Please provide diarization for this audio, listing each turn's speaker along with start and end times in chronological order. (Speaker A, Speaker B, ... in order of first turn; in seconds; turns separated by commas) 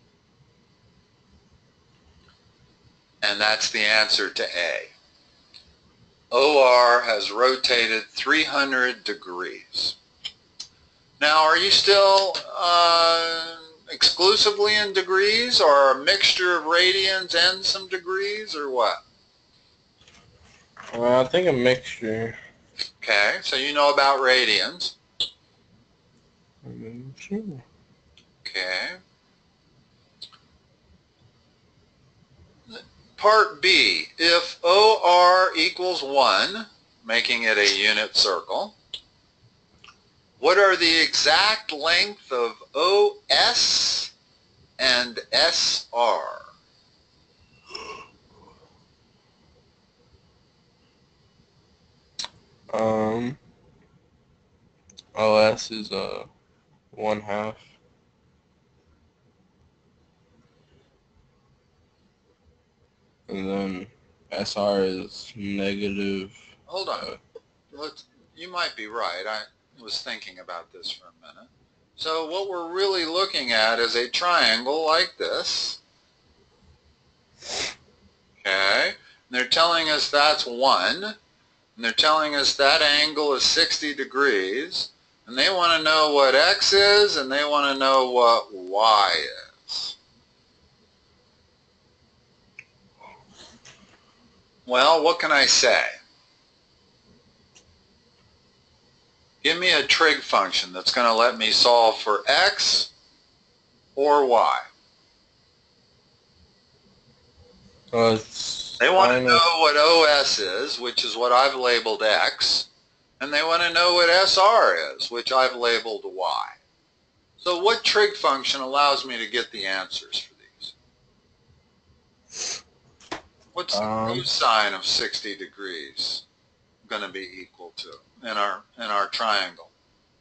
Speaker A: 3.2-4.9, Speaker A: 6.3-9.9, Speaker A: 11.2-19.0, Speaker B: 20.9-22.4, Speaker A: 23.0-24.9, Speaker B: 26.6-27.6, Speaker A: 28.4-29.0, Speaker A: 32.7-38.8, Speaker A: 40.4-44.1, Speaker A: 44.8-46.5, Speaker B: 52.7-53.4, Speaker B: 55.1-56.3, Speaker B: 56.9-57.7, Speaker B: 63.3-66.4, Speaker A: 66.7-67.1, Speaker A: 67.7-75.8, Speaker A: 78.4-81.2, Speaker A: 81.8-89.9, Speaker A: 94.7-95.9, Speaker A: 99.4-102.9, Speaker A: 104.0-104.7, Speaker B: 107.9-109.4, Speaker A: 108.8-112.7, Speaker A: 113.2-116.5, Speaker A: 117.4-120.7, Speaker A: 123.5-126.2, Speaker B: 123.7-124.3, Speaker A: 126.8-129.7